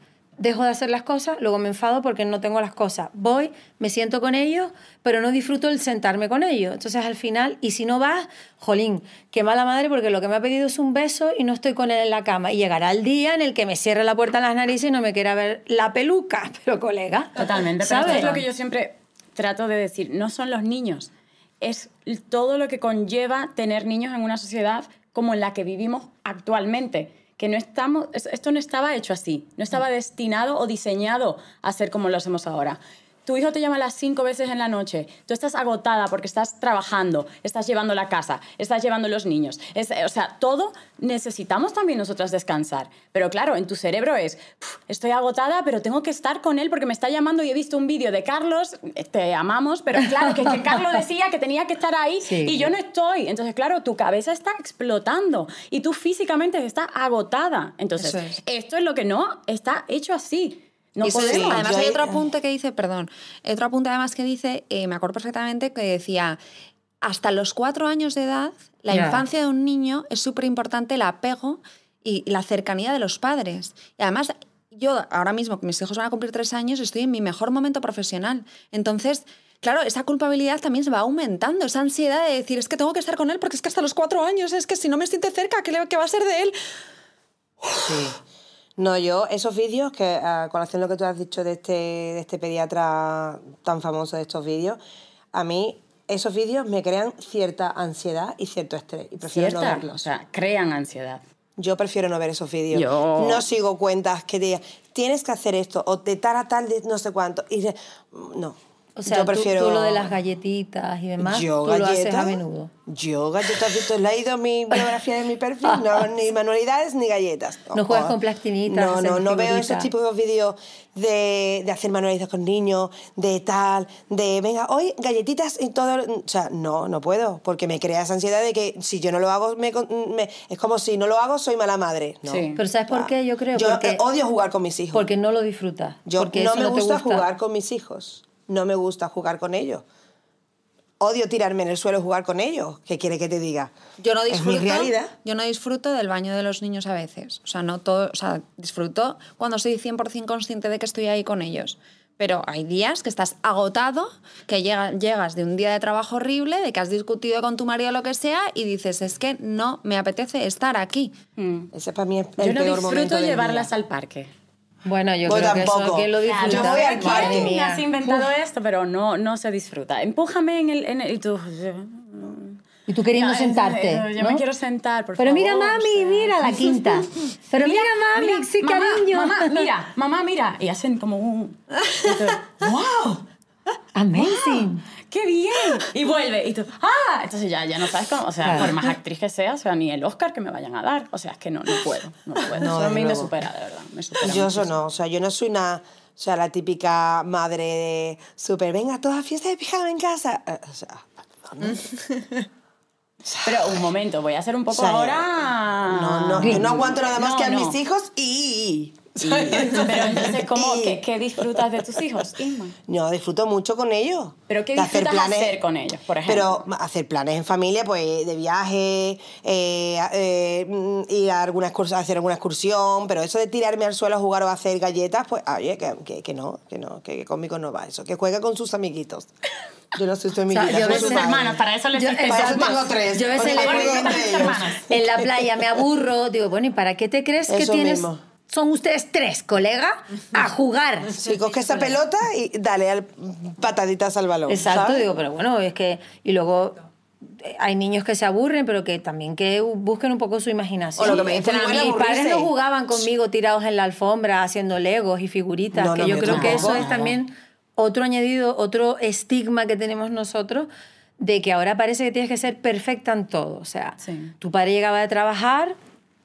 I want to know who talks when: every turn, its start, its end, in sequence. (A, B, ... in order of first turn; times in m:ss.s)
0:00.4-0:18.4 A
0:17.4-1:01.6 B
0:18.0-0:18.3 C
0:52.3-0:52.7 A
0:58.0-0:58.4 C
1:01.0-1:06.4 C
1:01.2-1:02.3 D
1:07.0-1:26.6 C
1:08.9-1:09.2 A
1:27.7-1:28.2 D
1:28.8-1:34.8 D
1:35.3-1:40.1 D
1:39.3-1:41.2 B
1:41.6-1:50.1 D
1:42.7-1:43.4 B
1:49.0-1:52.7 A
1:51.2-2:15.1 D
1:57.7-1:59.9 A
2:12.3-2:12.6 B
2:12.6-2:14.0 A
2:14.9-2:17.3 A
2:16.1-2:19.8 D
2:21.0-2:23.7 D
2:24.0-2:41.2 C
2:24.3-2:25.1 D
2:41.4-2:41.7 B
2:41.7-2:43.7 D
2:42.4-2:44.3 B
2:44.8-2:48.3 A
2:45.2-2:47.6 D
2:46.2-2:52.6 B
2:52.9-2:54.4 A
2:53.2-3:02.7 B
2:55.2-2:59.7 A
3:02.7-3:03.2 A
3:04.0-3:04.8 A
3:04.2-3:14.7 B
3:12.5-3:13.3 D
3:14.2-3:21.8 D
3:21.6-3:22.5 C
3:23.2-3:23.9 D
3:23.4-3:27.8 B
3:24.7-3:31.9 D
3:26.4-3:26.7 A
3:29.2-3:32.8 B
3:32.9-3:35.6 D
3:34.5-3:36.6 B
3:36.2-3:49.3 D
3:49.9-3:51.6 D
3:50.5-3:51.3 A
3:50.7-3:54.8 B
3:51.9-4:01.2 A
3:52.3-3:55.0 D
3:57.5-3:58.2 D
4:01.2-4:05.1 D
4:04.5-4:25.8 A
4:11.0-4:12.0 C
4:11.0-4:12.5 D
4:15.7-4:17.2 D
4:16.2-4:16.8 B
4:24.0-4:24.3 B